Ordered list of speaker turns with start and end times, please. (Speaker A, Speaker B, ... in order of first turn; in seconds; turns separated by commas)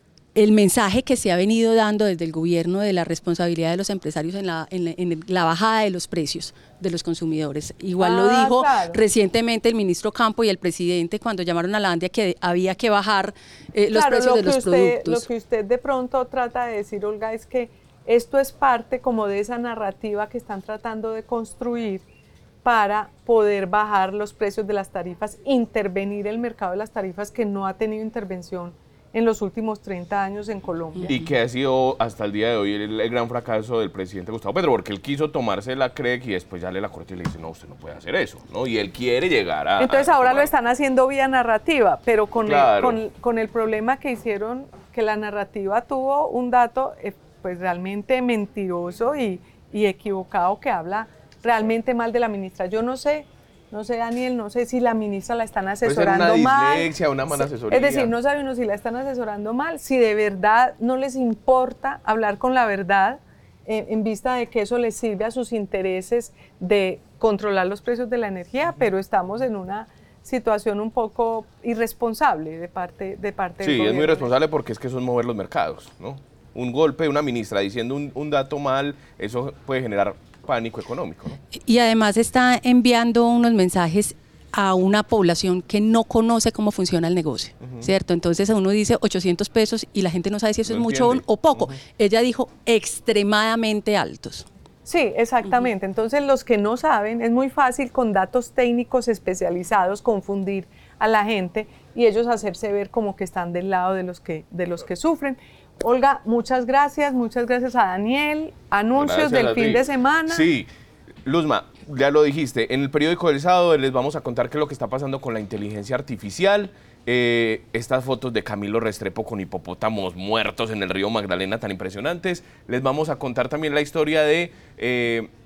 Speaker A: 0.3-15.3, Speaker B: 8.0-9.0, Speaker B: 13.9-22.0, Speaker B: 22.6-31.1, Speaker A: 30.9-31.3, Speaker C: 31.1-40.5, Speaker B: 39.8-74.3, Speaker C: 42.4-43.0, Speaker C: 55.8-58.1, Speaker C: 73.6-81.4, Speaker A: 81.6-94.5, Speaker C: 87.6-87.9, Speaker C: 90.7-91.7, Speaker B: 94.8-110.5, Speaker C: 108.9-110.7, Speaker C: 111.2-125.3